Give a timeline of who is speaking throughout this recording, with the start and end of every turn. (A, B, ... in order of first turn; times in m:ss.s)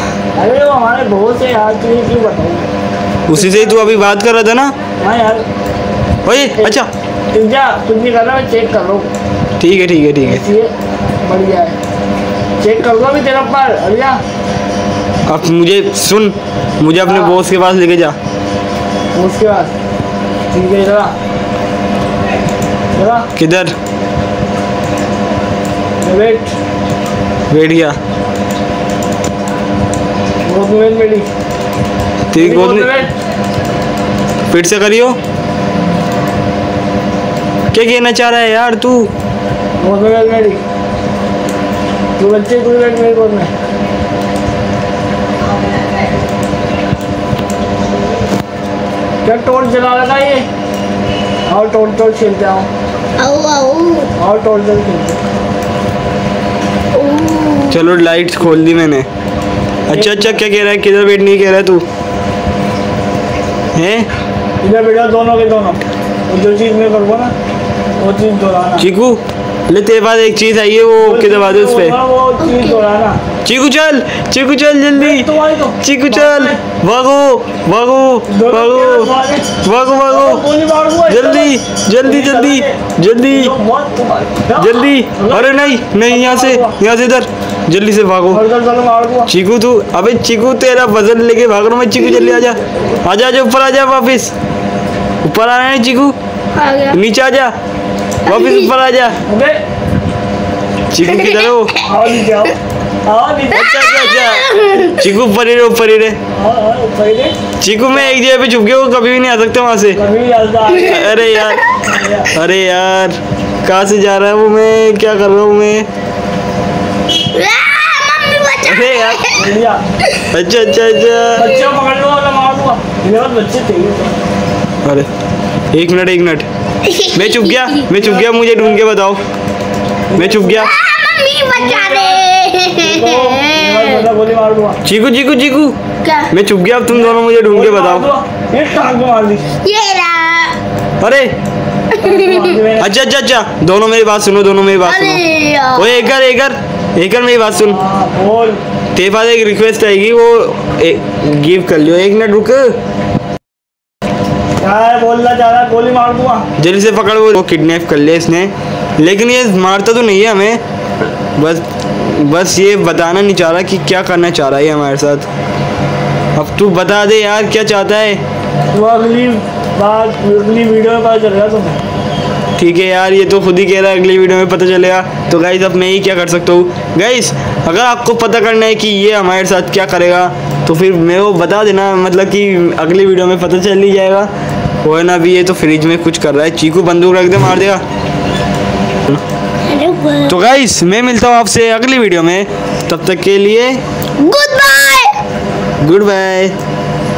0:00.4-0:02.7 A
0:03.3-0:04.7 B
0:03.3-0:04.0 A
0:05.0-0:05.4 A
0:06.3-0:06.9 B
0:06.3-0:06.8 A
0:07.3-0:09.1 A
0:09.6-0:10.4 B
0:10.2-0:10.7 A
0:11.2-0:11.8 A
0:12.6-0:14.2 A
0:15.3-0:18.2 B
0:17.0-0:17.4 A
0:19.1-0:19.7 A
0:20.5-0:21.1 A
0:23.0-0:23.3 A
0:23.4-0:23.7 B
0:26.0-0:26.5 A
0:27.5-0:28.0 B
0:30.4-0:31.3 A
0:32.3-0:32.9 B
0:32.4-0:33.1 A
0:34.5-0:35.2 B
0:37.7-0:39.1 B
0:39.8-0:40.6 A
0:42.2-0:43.5 A
0:49.2-0:50.4 A
0:51.5-0:52.7 A
0:53.2-0:54.1 C
0:54.2-0:55.2 A
0:56.9-0:57.8 C
0:57.7-0:59.1 B
0:59.9-1:01.8 B
0:59.9-1:00.4 A
1:03.8-1:04.1 B
1:04.6-1:07.3 A
1:08.0-1:08.9 A
1:08.8-1:12.0 B
1:11.0-1:13.2 A
1:12.4-1:12.8 C
1:13.4-1:15.3 B
1:14.9-1:16.6 A
1:15.8-1:19.1 B
1:18.3-1:19.5 A
1:19.6-1:20.4 B
1:20.1-1:22.8 A
1:21.1-1:23.5 B
1:23.3-1:26.8 A
1:24.6-1:28.4 B
1:28.3-1:29.3 A
1:29.3-1:34.3 B
1:32.0-1:32.4 C
1:35.2-1:36.2 B
1:36.6-1:37.0 C
1:36.9-1:37.5 B
1:38.3-1:38.7 C
1:38.3-1:39.2 B
1:39.2-1:39.6 A
1:40.9-1:41.8 B
1:41.0-1:41.9 C
1:41.8-1:44.2 A
1:43.6-1:45.1 C
1:43.8-1:46.2 B
1:46.3-1:47.4 A
1:47.6-1:50.0 B
1:47.9-1:48.2 A
1:50.0-1:51.3 A
1:50.7-1:51.6 B
1:50.8-1:51.8 C
1:51.8-1:52.3 A
1:52.3-1:55.9 B
1:57.3-1:59.5 C
1:58.6-1:59.2 B
1:59.3-1:59.8 A
2:00.3-2:01.6 B
2:01.4-2:04.2 A
2:05.7-2:06.5 B
2:06.8-2:07.8 C
2:07.1-2:09.2 B
2:07.9-2:08.8 A
2:10.1-2:10.7 A
2:10.2-2:10.7 B
2:10.6-2:14.1 C
2:11.6-2:12.2 A
2:12.8-2:14.8 A
2:14.8-2:15.8 B
2:16.0-2:16.3 C
2:16.3-2:18.1 B
2:16.9-2:19.4 A
2:19.6-2:20.6 C
2:21.0-2:21.3 B
2:21.9-2:22.6 C
2:22.0-2:22.9 A
2:22.8-2:25.2 B
2:24.8-2:26.1 C
2:25.8-2:27.8 B
2:27.5-2:28.6 A
2:29.0-2:32.6 B
2:34.6-2:36.5 A
2:36.6-2:40.6 B
2:41.4-2:45.3 B
2:46.4-2:48.2 B
2:48.7-2:51.8 A
2:52.6-3:04.3 B
3:04.8-3:07.8 B
3:09.6-3:10.5 C
3:10.3-3:13.8 B
3:14.2-3:15.2 C
3:15.8-3:16.5 B